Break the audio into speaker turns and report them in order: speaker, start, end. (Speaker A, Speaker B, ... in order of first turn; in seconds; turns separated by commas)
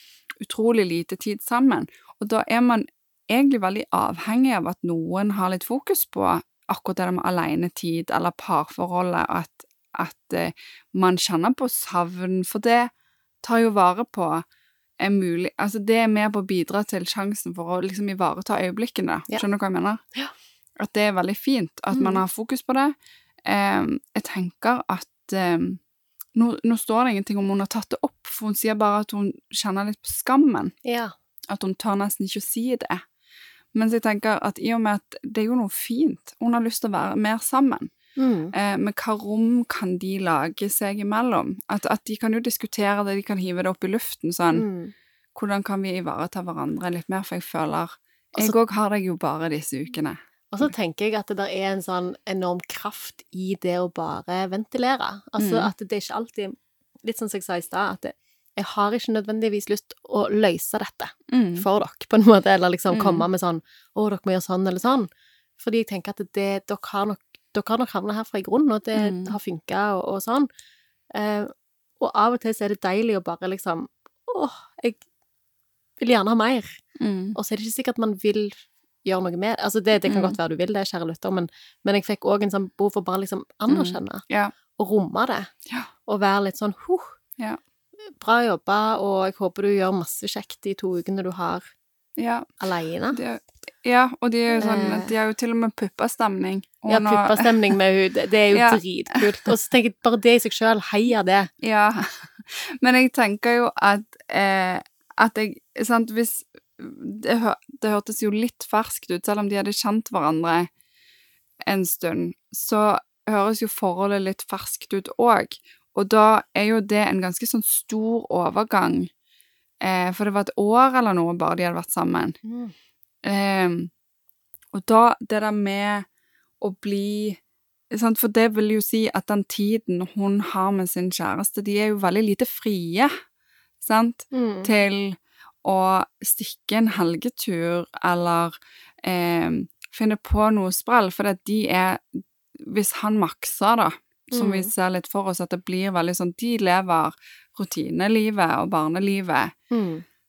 Speaker A: 0.4-12.9, Speaker A: 13.4-14.4, Speaker A: 15.0-20.0, Speaker A: 20.8-22.9, Speaker B: 21.9-22.2, Speaker A: 23.4-25.8, Speaker A: 26.3-30.7, Speaker B: 30.8-31.1, Speaker A: 31.5-33.0, Speaker A: 33.7-37.9, Speaker B: 38.1-38.5, Speaker A: 38.5-44.6, Speaker B: 44.5-44.9, Speaker A: 45.3-50.1, Speaker B: 50.5-70.5, Speaker A: 55.4-55.7, Speaker A: 61.3-61.6, Speaker A: 62.9-63.2, Speaker A: 69.0-69.4, Speaker B: 71.1-75.0, Speaker B: 76.0-76.7, Speaker A: 77.0-77.3, Speaker B: 77.3-84.2, Speaker A: 80.1-80.4, Speaker A: 83.7-84.5, Speaker B: 84.8-85.5, Speaker B: 86.1-87.1, Speaker B: 88.2-91.6, Speaker A: 92.2-92.5, Speaker B: 92.6-93.2, Speaker A: 93.1-97.7, Speaker B: 94.5-95.1, Speaker B: 96.9-101.5, Speaker A: 98.5-99.5, Speaker A: 101.6-110.7, Speaker A: 111.7-119.1, Speaker A: 119.8-122.4, Speaker B: 122.4-122.7, Speaker A: 123.2-123.9, Speaker A: 124.7-126.0, Speaker A: 126.6-127.4, Speaker A: 127.9-133.1, Speaker A: 133.8-149.5, Speaker B: 134.3-134.7, Speaker B: 144.3-144.7, Speaker B: 149.7-150.0